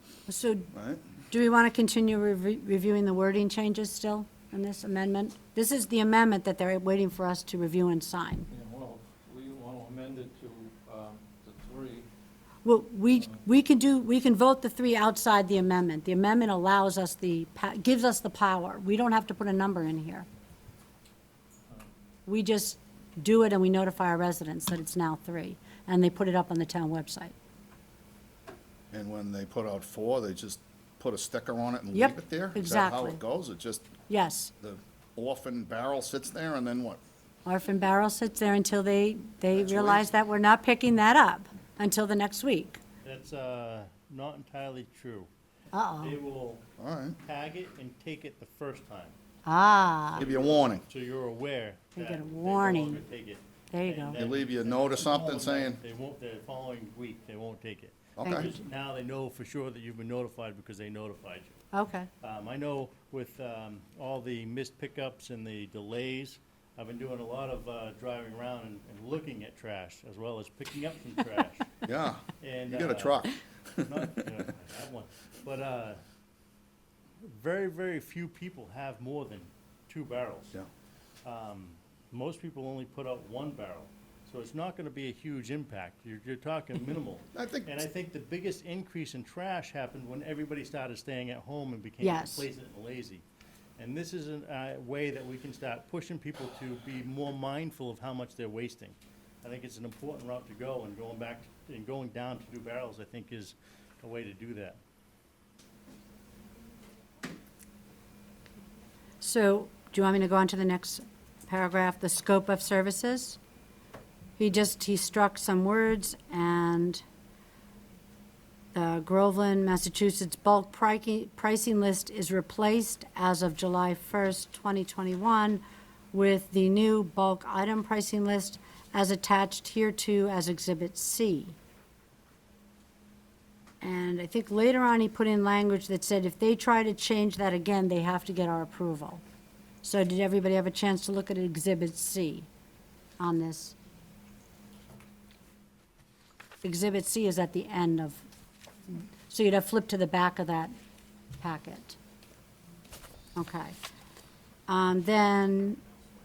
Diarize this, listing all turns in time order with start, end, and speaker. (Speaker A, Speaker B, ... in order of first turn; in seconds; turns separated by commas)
Speaker A: 0.3-0.7, Speaker B: 0.7-1.0, Speaker A: 1.3-8.5, Speaker C: 8.5-12.1, Speaker A: 12.6-20.3, Speaker A: 22.2-27.3, Speaker B: 28.9-33.9, Speaker A: 31.9-33.2, Speaker A: 34.1-34.5, Speaker B: 34.6-37.0, Speaker A: 37.5-42.8, Speaker B: 39.5-40.0, Speaker D: 43.0-45.3, Speaker A: 45.7-46.2, Speaker D: 46.0-46.6, Speaker B: 46.8-47.2, Speaker D: 47.2-49.2, Speaker A: 49.4-50.2, Speaker D: 50.1-61.6, Speaker B: 50.2-50.8, Speaker A: 51.9-53.0, Speaker A: 53.7-54.2, Speaker B: 54.1-55.8, Speaker B: 58.2-58.5, Speaker A: 58.2-58.5, Speaker A: 61.7-62.1, Speaker D: 62.2-71.8, Speaker B: 71.8-74.3, Speaker D: 72.4-73.2, Speaker D: 73.8-76.0, Speaker D: 77.2-80.5, Speaker D: 81.2-93.2, Speaker B: 87.3-87.7, Speaker A: 92.0-92.5, Speaker D: 93.8-104.8, Speaker A: 109.2-113.4, Speaker A: 114.4-117.0, Speaker A: 118.7-131.6, Speaker A: 133.8-139.2, Speaker A: 139.8-142.5, Speaker A: 143.2-143.8, Speaker A: 146.6-148.2, Speaker A: 148.9-150.7, Speaker A: 151.4-152.0, Speaker A: 153.3-153.8, Speaker A: 154.7-155.8